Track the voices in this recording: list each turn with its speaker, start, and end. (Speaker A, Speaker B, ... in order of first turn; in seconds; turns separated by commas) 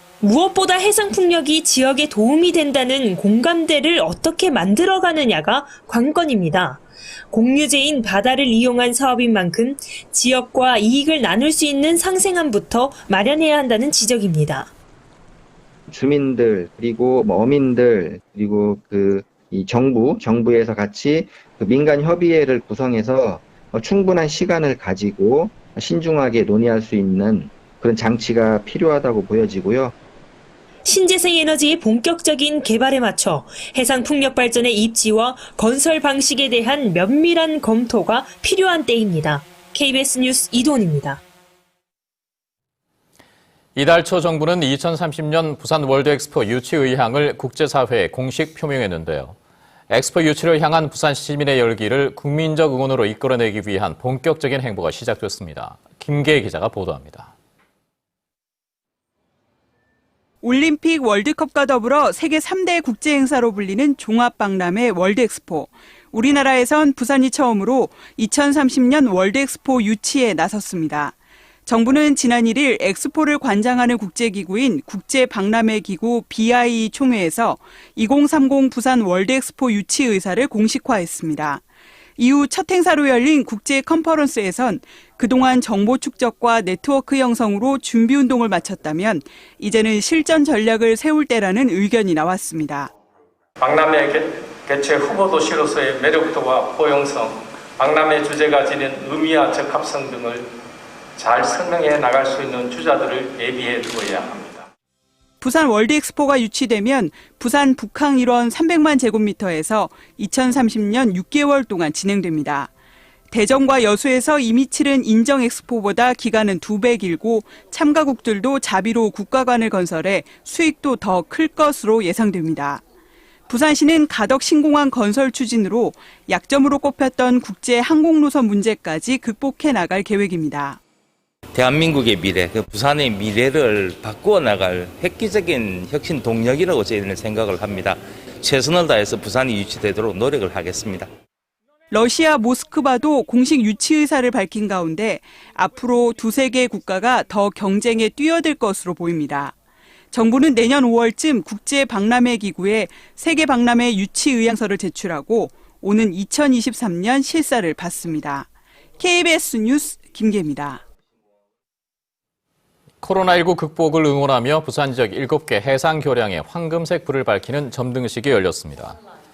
Speaker A: 0.2-14.7, Speaker B: 15.9-29.9, Speaker A: 30.9-41.2, Speaker C: 43.8-49.4, Speaker C: 49.9-57.3, Speaker D: 60.4-71.2, Speaker D: 71.7-81.6, Speaker D: 82.2-92.9, Speaker E: 93.6-100.5, Speaker E: 101.2-104.7, Speaker D: 105.4-112.7, Speaker D: 113.3-122.8, Speaker D: 123.5-130.8, Speaker F: 131.5-141.1, Speaker D: 141.9-149.6, Speaker D: 150.1-158.5, Speaker D: 159.0-160.8, Speaker C: 163.0-169.0